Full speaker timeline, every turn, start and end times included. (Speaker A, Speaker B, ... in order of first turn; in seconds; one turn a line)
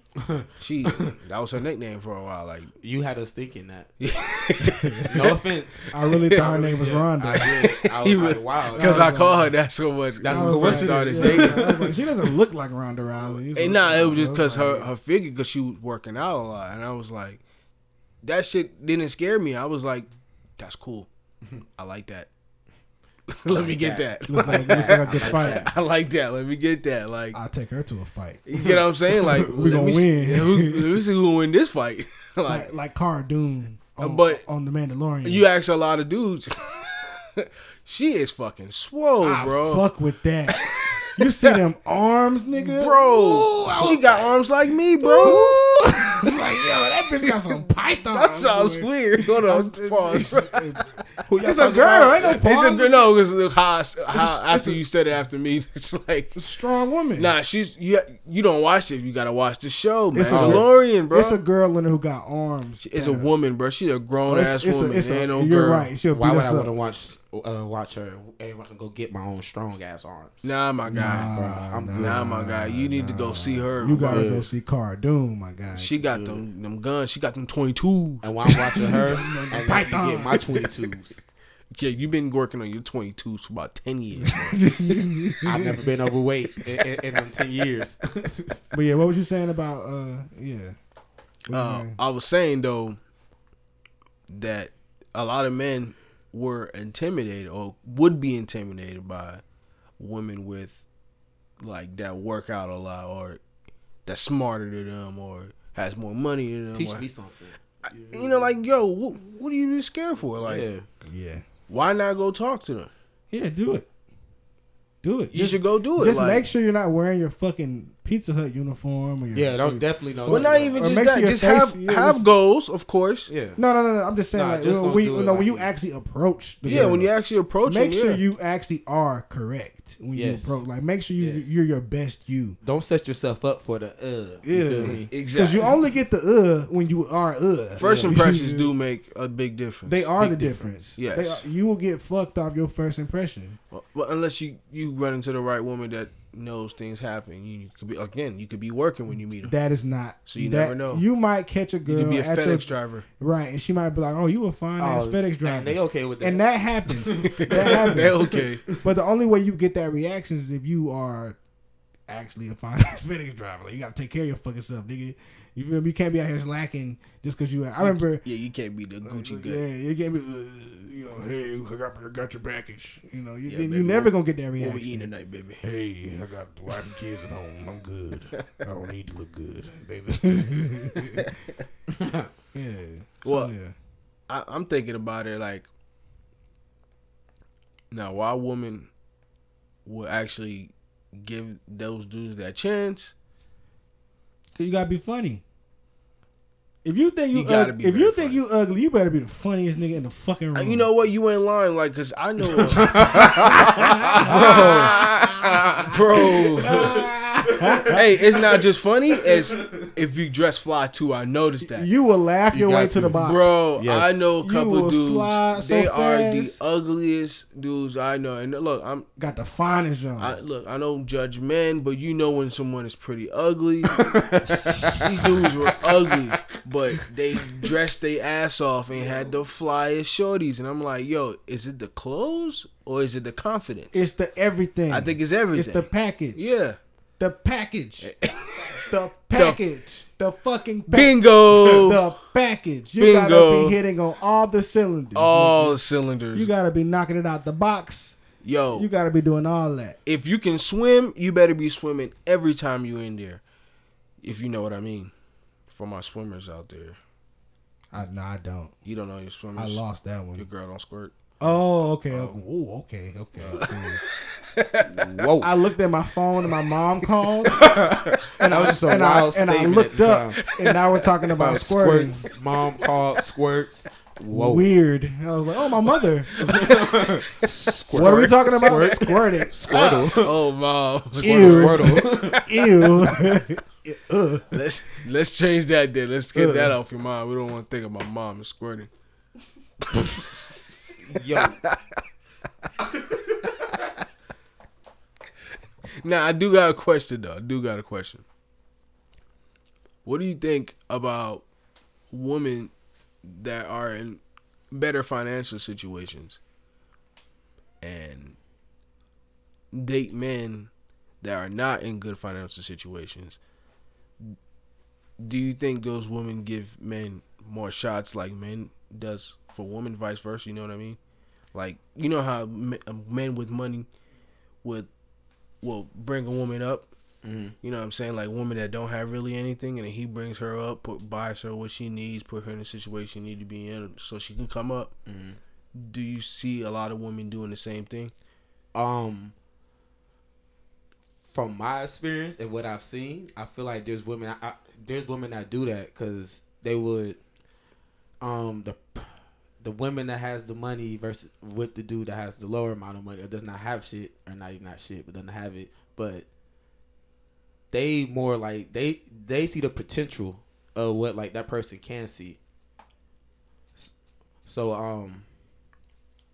Speaker A: 0.2-1.2
Speaker B: 0.6-2.7
Speaker A: 2.8-3.9
Speaker B: 4.0-5.3
Speaker C: 4.6-5.3
Speaker A: 5.1-9.4
Speaker C: 5.9-7.6
Speaker B: 6.0-6.5
Speaker B: 7.3-11.8
Speaker C: 8.8-9.5
Speaker A: 10.2-12.0
Speaker C: 10.3-14.9
Speaker B: 13.5-17.4
Speaker B: 18.2-21.1
Speaker B: 21.8-22.3
Speaker B: 23.3-27.4
Speaker A: 23.5-25.7
Speaker C: 24.3-25.6
Speaker C: 27.3-28.5
Speaker B: 28.5-32.7
Speaker A: 29.2-29.5
Speaker C: 29.5-30.8
Speaker C: 32.5-35.5
Speaker B: 34.0-34.4
Speaker B: 35.2-39.9
Speaker C: 39.2-40.6
Speaker B: 40.5-41.6
Speaker C: 41.1-44.2
Speaker B: 42.5-45.5
Speaker A: 43.7-44.3
Speaker C: 45.0-53.1
Speaker B: 47.2-47.6
Speaker B: 48.1-50.6
Speaker A: 51.3-52.4
Speaker B: 52.4-56.4
Speaker C: 54.1-54.8
Speaker C: 56.4-57.3
Speaker B: 57.2-61.4
Speaker C: 60.1-63.3
Speaker A: 60.2-60.7
Speaker B: 62.8-65.9
Speaker C: 64.3-66.7
Speaker A: 66.1-72.2
Speaker B: 70.4-71.3
Speaker C: 70.9-75.9
Speaker B: 72.0-74.4
Speaker A: 74.0-74.5
Speaker B: 75.7-78.3
Speaker A: 76.1-76.4
Speaker A: 78.2-81.2
Speaker C: 78.7-80.7
Speaker B: 81.7-84.7
Speaker C: 84.3-85.8
Speaker A: 85.4-88.6
Speaker C: 88.7-90.8
Speaker C: 91.5-92.0
Speaker B: 91.5-93.0
Speaker B: 94.3-99.4
Speaker B: 100.0-100.8
Speaker B: 101.6-103.4
Speaker B: 104.1-107.0
Speaker A: 106.7-108.5
Speaker B: 108.1-110.7
Speaker A: 110.4-110.9
Speaker C: 111.1-111.4
Speaker B: 111.7-112.9
Speaker C: 113.3-113.9
Speaker C: 115.0-122.2
Speaker B: 115.3-116.5
Speaker A: 119.3-120.8
Speaker B: 120.3-123.3
Speaker A: 123.3-123.6
Speaker C: 123.6-127.1
Speaker A: 124.3-125.7
Speaker B: 126.6-128.2
Speaker A: 126.7-127.0
Speaker C: 127.6-132.6
Speaker A: 130.1-130.6
Speaker A: 131.2-131.6
Speaker A: 132.6-135.1
Speaker C: 134.4-138.7
Speaker B: 135.1-135.8
Speaker B: 137.8-141.5
Speaker A: 137.8-138.3
Speaker C: 139.9-143.6
Speaker B: 143.7-149.5
Speaker C: 149.4-158.2
Speaker B: 150.3-151.0
Speaker B: 151.8-153.1
Speaker A: 154.8-158.8
Speaker B: 157.2-158.6
Speaker C: 158.8-161.4
Speaker C: 162.1-168.2
Speaker B: 167.8-169.6
Speaker C: 169.0-175.1
Speaker B: 173.4-175.6
Speaker C: 175.6-181.3
Speaker A: 181.9-182.3
Speaker C: 182.5-183.8
Speaker B: 183.2-183.5
Speaker B: 184.3-185.7
Speaker B: 187.9-188.9
Speaker B: 189.8-193.1
Speaker C: 194.6-195.4
Speaker C: 196.8-200.9
Speaker B: 197.3-198.4
Speaker B: 200.6-205.2
Speaker A: 202.6-208.6
Speaker C: 202.9-205.8
Speaker B: 205.8-207.0
Speaker C: 206.6-208.0
Speaker B: 207.9-211.9
Speaker A: 209.2-209.9
Speaker C: 211.6-213.6
Speaker A: 212.5-214.2
Speaker B: 213.2-219.1
Speaker C: 214.4-216.6
Speaker C: 219.2-220.4
Speaker B: 220.2-224.1
Speaker A: 223.9-226.5
Speaker B: 224.9-234.0
Speaker A: 229.0-229.3
Speaker C: 233.9-236.6
Speaker B: 234.9-236.8
Speaker C: 237.2-238.1
Speaker B: 238.0-239.6
Speaker C: 238.9-245.8
Speaker B: 240.9-242.0
Speaker B: 243.0-243.8
Speaker B: 245.2-246.5
Speaker C: 246.3-248.2
Speaker B: 248.4-248.9
Speaker C: 248.7-250.0
Speaker B: 250.1-253.4
Speaker B: 254.2-255.1
Speaker B: 255.7-257.0
Speaker C: 257.9-258.7
Speaker B: 258.9-259.8
Speaker C: 259.6-260.5
Speaker B: 260.4-261.1
Speaker C: 261.4-264.0
Speaker B: 262.1-262.4
Speaker B: 263.4-265.3
Speaker A: 264.8-265.5
Speaker C: 265.4-267.7
Speaker B: 267.0-267.6
Speaker A: 267.5-270.6
Speaker C: 268.4-272.3
Speaker A: 271.4-274.8
Speaker C: 274.3-276.7
Speaker B: 276.4-276.9
Speaker A: 276.4-280.5
Speaker B: 277.4-279.2
Speaker C: 277.4-280.2
Speaker B: 280.2-283.4
Speaker A: 281.2-282.4
Speaker C: 281.2-284.5
Speaker B: 284.5-288.9
Speaker C: 286.4-286.7
Speaker B: 289.9-290.8
Speaker A: 291.0-291.6
Speaker B: 291.3-291.8
Speaker B: 296.0-298.2
Speaker B: 300.1-301.4
Speaker B: 302.1-306.4
Speaker B: 307.8-308.4
Speaker B: 309.7-310.7
Speaker B: 311.2-313.4
Speaker B: 315.2-321.0
Speaker B: 321.5-323.9
Speaker B: 324.6-324.9
Speaker B: 325.6-326.9
Speaker A: 327.2-327.6
Speaker B: 327.6-334.9
Speaker A: 335.1-335.4
Speaker B: 335.8-338.1
Speaker A: 338.7-339.3
Speaker A: 341.3-347.2
Speaker A: 348.2-356.2
Speaker A: 357.7-362.4
Speaker A: 364.5-365.3